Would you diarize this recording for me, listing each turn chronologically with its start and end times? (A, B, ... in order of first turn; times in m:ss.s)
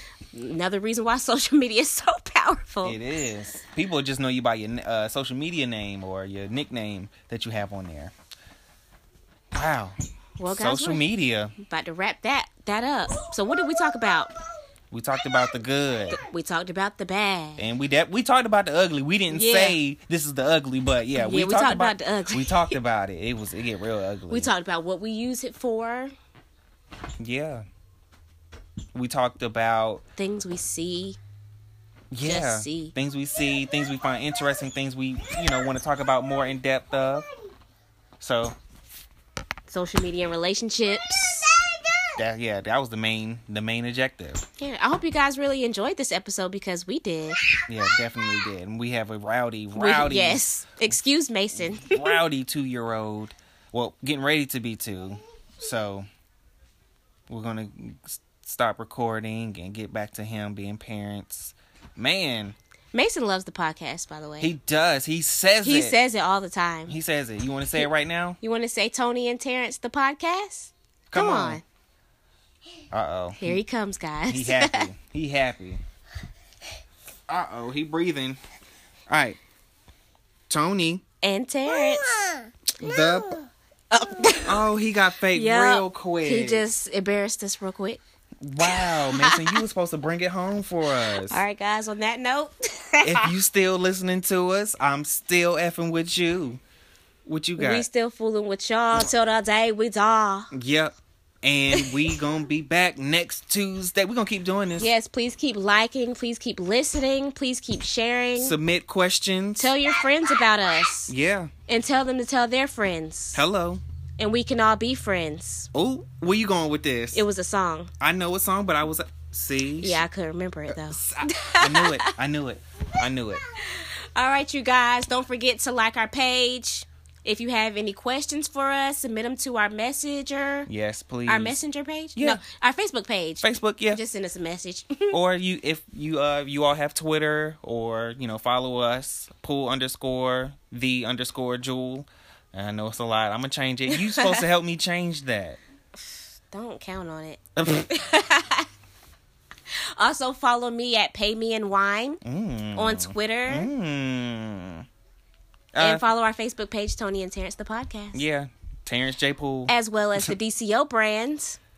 0:00.3-0:03.0 A
0:02.8-0:08.1 B
0:09.5-0:10.0 B
0:10.4-0:11.0 A
0:10.5-0:11.5 B
0:11.6-0:14.3 A
0:14.9-0:16.2 B
0:16.1-0:17.6 A
0:17.6-0:24.5 B
0:19.3-0:19.8 A
0:21.2-0:22.8 A
0:24.3-0:26.1 A
0:27.2-0:27.6 B
0:28.9-0:30.0 B
0:30.2-0:31.2 A
0:32.1-0:37.3 B
0:32.2-0:32.9 A
0:38.2-0:38.6 B
0:39.7-0:41.5 A
0:42.1-0:44.4 B
0:44.6-0:47.4 A
0:47.7-0:50.4 B
0:49.7-0:52.2 A
0:51.6-0:56.1 B
0:57.3-1:02.5 B
1:02.9-1:04.5 A
1:04.4-1:06.0 B
1:05.6-1:06.9 A
1:06.9-1:08.4 B
1:08.4-1:11.6 A
1:11.1-1:11.6 B
1:12.9-1:13.6 B
1:13.4-1:14.9 A
1:14.3-1:15.8 B
1:17.3-1:18.4 B
1:19.1-1:19.4 B
1:20.5-1:21.0 B
1:21.2-1:22.1 A
1:22.8-1:23.4 B
1:23.9-1:24.6 A
1:24.4-1:26.6 B
1:25.3-1:28.0 A
1:28.4-1:31.4 B
1:28.6-1:29.6 A
1:31.2-1:33.3 A
1:33.0-1:36.6 B
1:37.2-1:37.8 B
1:37.6-1:40.5 A
1:40.5-1:44.9 B
1:44.8-1:48.6 A
1:48.4-1:49.7 B
1:49.6-1:51.1 A
1:51.1-1:51.5 B
1:51.7-1:53.4 A
1:53.3-1:53.8 B
1:54.2-1:55.7 A
1:55.7-1:57.2 B
1:57.1-1:57.9 A
1:58.0-2:00.0 B
1:59.8-2:02.1 A
2:00.7-2:03.4 B
2:03.7-2:10.7 A
2:10.7-2:11.6 B
2:11.3-2:15.2 A
2:12.2-2:12.4 B
2:13.4-2:14.0 B
2:15.1-2:25.6 B
2:26.5-2:28.7 A
2:27.6-2:27.8 B
2:30.0-2:32.2 A
2:32.2-2:34.8 B
2:32.8-2:33.7 A
2:35.7-2:36.0 B
2:35.8-2:38.2 A
2:38.1-2:40.3 B
2:39.7-2:41.6 A